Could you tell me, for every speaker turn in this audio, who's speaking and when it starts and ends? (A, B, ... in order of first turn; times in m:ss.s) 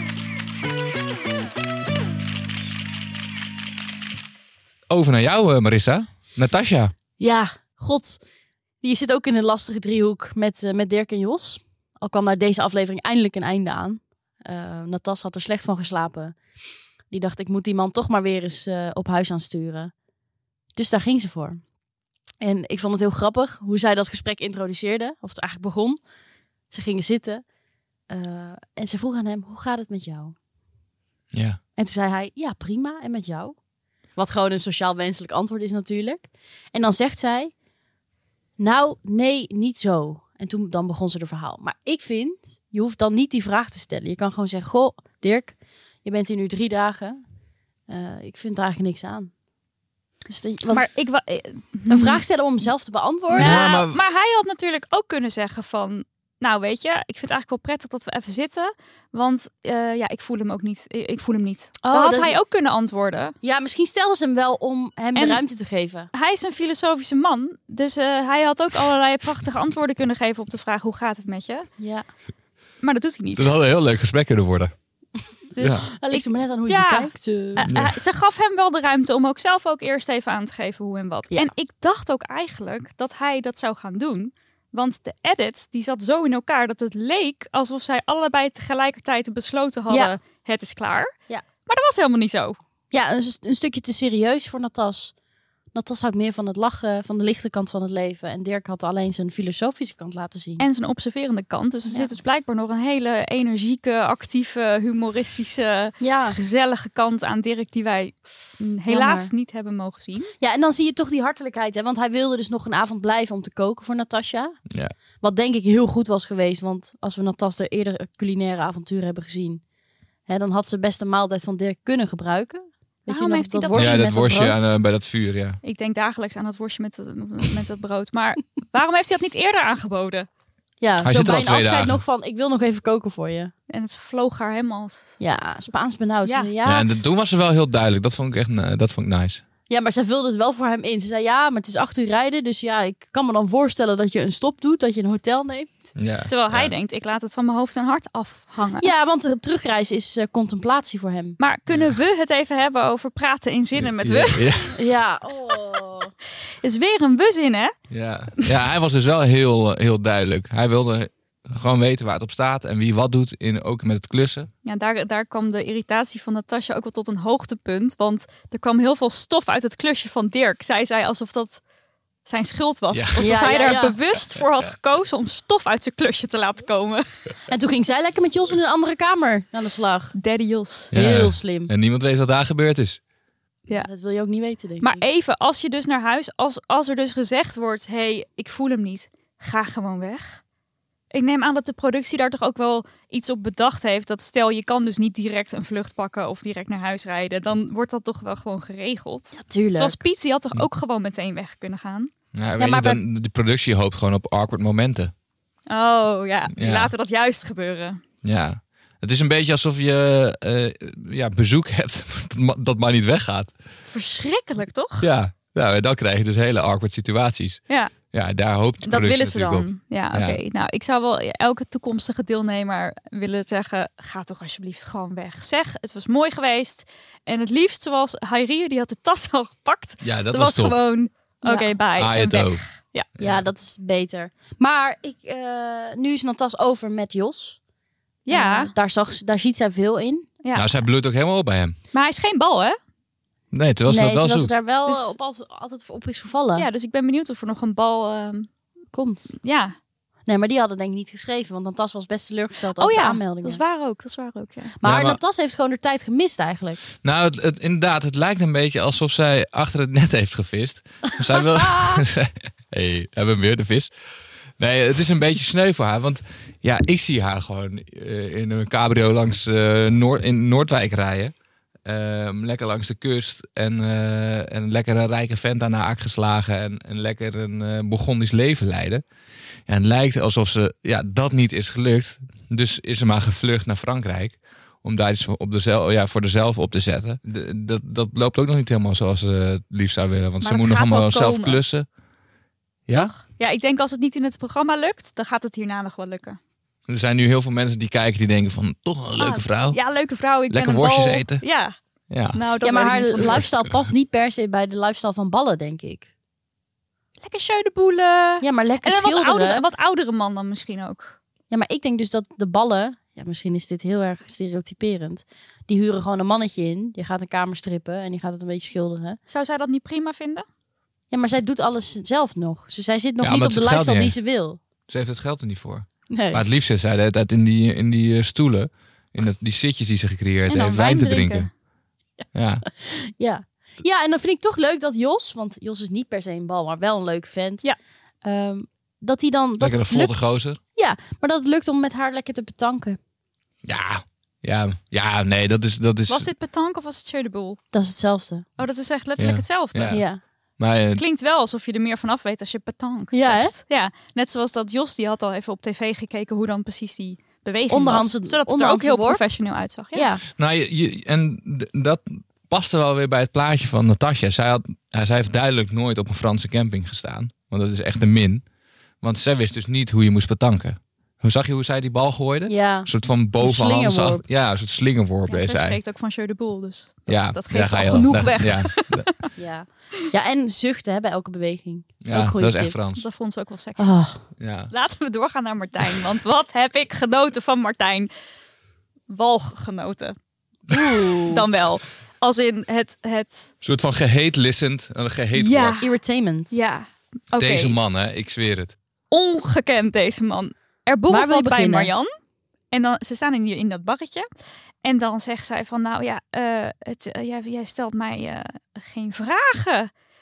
0:04.9-0:06.9 A
0:07.2-0:08.2 B
0:08.8-0:16.4 B
0:17.1-0:19.9 B
0:20.8-0:21.6 B
0:22.4-0:26.0 B
0:26.7-0:27.4 B
0:28.1-0:30.4 B
0:31.3-0:31.6 A
0:31.8-0:33.6 B
0:34.2-0:37.5 B
0:38.6-0:47.2 B
0:47.9-0:49.3 B
0:50.3-0:50.9 B
0:50.7-0:52.2 C
0:51.9-0:53.7 B
0:53.3-1:03.4 C
0:53.3-0:54.0 A
1:01.8-1:02.4 B
1:03.4-1:06.1 B
1:05.2-1:05.4 C
1:06.1-1:11.7 C
1:11.8-1:12.1 B
1:12.8-1:13.5 C
1:13.4-1:14.7 A
1:15.5-1:31.1 C
1:15.6-1:15.9 A
1:15.9-1:17.7 B
1:17.7-1:18.0 A
1:31.7-1:32.6 C
1:32.9-1:35.1 B
1:35.7-1:40.6 B
1:40.6-1:50.3 C
1:46.0-1:46.4 B
1:48.9-1:49.3 B
1:50.4-1:54.6 B
1:55.2-1:59.6 B
2:00.3-2:04.6 B
2:03.1-2:04.1 C
2:03.7-2:05.6 A
2:05.6-2:10.3 C
2:10.8-2:13.5 B
2:11.0-2:12.0 A
2:13.7-2:15.2 C
2:15.2-2:16.9 B
2:16.2-2:16.5 C
2:16.6-2:19.4 A
2:19.7-2:25.8 B
2:26.0-2:26.7 A
2:26.3-2:28.9 C
2:28.8-2:31.4 B
2:31.4-2:34.6 C
2:31.7-2:32.0 A
2:33.8-2:34.8 A
2:34.7-2:36.1 B
2:36.6-2:37.7 C
2:37.9-2:44.5 A
2:44.6-2:51.6 C
2:52.2-2:57.1 C
2:52.9-2:53.3 A
2:53.2-2:54.0 B
2:57.5-3:00.1 B
3:00.2-3:00.9 C
3:00.9-3:01.7 B
3:00.9-3:03.0 A
3:03.7-3:05.0 B
3:04.8-3:10.4 C
3:11.1-3:22.1 C
3:19.4-3:20.0 B
3:22.3-3:25.1 A
3:22.6-3:23.0 B
3:25.7-3:28.0 C
3:26.6-3:26.9 A
3:28.2-3:33.5 A
3:33.9-3:35.1 C
3:35.0-3:40.4 A
3:37.7-3:37.9 C
3:38.8-3:53.1 C
3:50.0-3:50.8 A
3:51.4-3:51.7 B
3:52.0-3:52.6 A
3:53.2-3:57.6 B
3:58.3-3:58.7 C
3:58.3-4:00.3 B
4:00.4-4:00.7 C
4:00.5-4:01.8 A
4:01.9-4:02.8 C
4:03.5-4:04.6 A
4:03.9-4:06.7 B
4:04.9-4:05.2 C
4:06.6-4:08.5 C
4:08.9-4:09.3 B
4:09.4-4:09.8 C
4:10.3-4:13.6 B
4:12.8-4:14.8 C
4:14.8-4:16.8 B
4:14.8-4:15.2 A
4:17.0-4:23.9 A
4:21.7-4:22.0 B
4:24.6-4:31.3 A
4:31.8-4:39.0 A
4:39.7-4:51.9 A
4:50.4-4:51.6 C
4:53.0-4:56.4 C
4:56.9-4:59.8 A
4:59.2-5:01.8 C
5:00.5-5:01.4 A
5:02.1-5:02.4 A
5:02.3-5:03.5 C
5:02.6-5:06.1 B
5:03.2-5:03.6 A
5:07.2-5:11.2 C
5:08.4-5:09.6 B
5:11.5-5:19.2 B
5:19.3-5:20.5 C
5:21.1-5:24.6 B
5:23.2-5:24.2 A
5:24.9-5:31.5 A
5:26.1-5:26.4 B
5:30.5-5:31.5 C
5:32.3-5:32.6 A
5:32.8-5:37.6 B
5:38.2-5:43.0 B
5:39.6-5:40.6 A
5:43.6-5:46.3 A
5:46.1-5:47.6 C
5:47.7-5:48.5 B
5:48.6-5:50.0 C
5:49.2-5:50.0 A
5:49.9-5:50.2 B
5:50.6-5:51.0 A
5:50.9-6:00.1 C
5:53.1-5:53.6 B
5:57.7-5:59.2 B
5:59.9-6:00.2 B
6:00.4-6:08.4 A
6:09.0-6:15.8 A
6:12.5-6:14.2 B
6:15.3-6:19.3 C
6:17.1-6:19.1 A
6:19.4-6:22.8 B
6:22.0-6:23.0 A
6:23.0-6:23.9 C
6:23.8-6:24.2 B
6:24.4-6:24.7 A
6:24.7-6:28.1 C
6:29.1-6:30.2 C
6:30.7-6:31.4 B
6:31.2-6:33.5 C
6:33.6-6:35.8 A
6:35.4-6:35.9 C
6:35.8-6:36.6 B
6:36.5-6:37.8 C
6:37.4-6:38.8 A
6:39.1-6:42.1 C
6:41.1-6:41.9 B
6:42.7-6:44.3 C
6:44.8-6:49.9 C